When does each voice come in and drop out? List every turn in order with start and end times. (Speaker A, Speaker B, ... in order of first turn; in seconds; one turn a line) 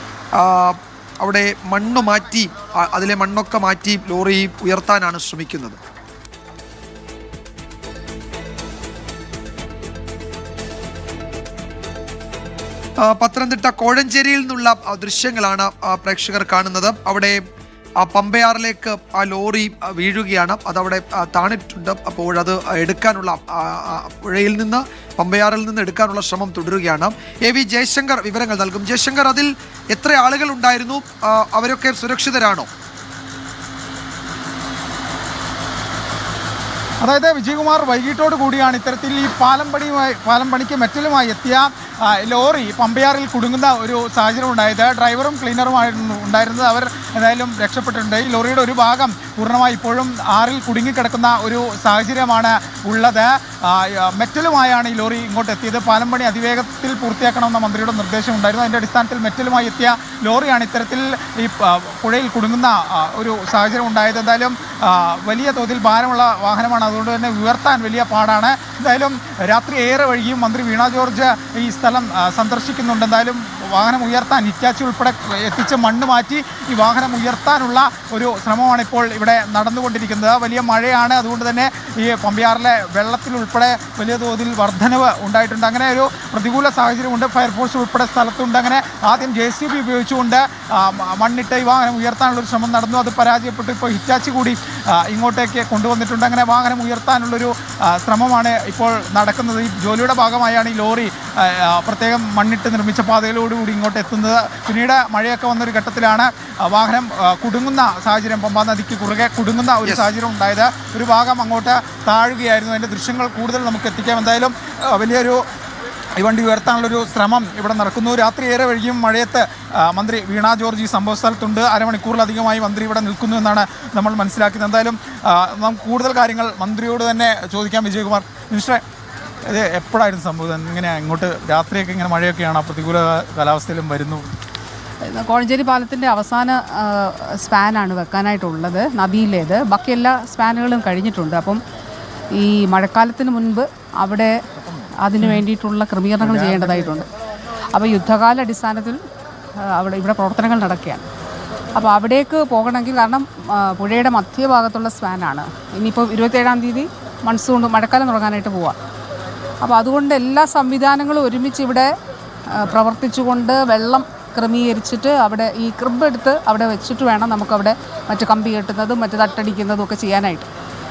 Speaker A: 0.4-5.8
Speaker A: 13.0-17.4
Speaker A: 18.0-32.7
Speaker B: 37.0-115.4
Speaker A: 109.8-110.1
Speaker B: 116.2-128.8
Speaker B: 129.5-134.3
Speaker C: 135.1-141.6
Speaker C: 142.3-144.3
Speaker C: 145.0-147.1
Speaker B: 146.2-146.7
Speaker C: 147.7-149.0
Speaker C: 149.7-151.1
Speaker C: 151.8-158.8
Speaker C: 159.6-161.9
Speaker C: 162.5-170.5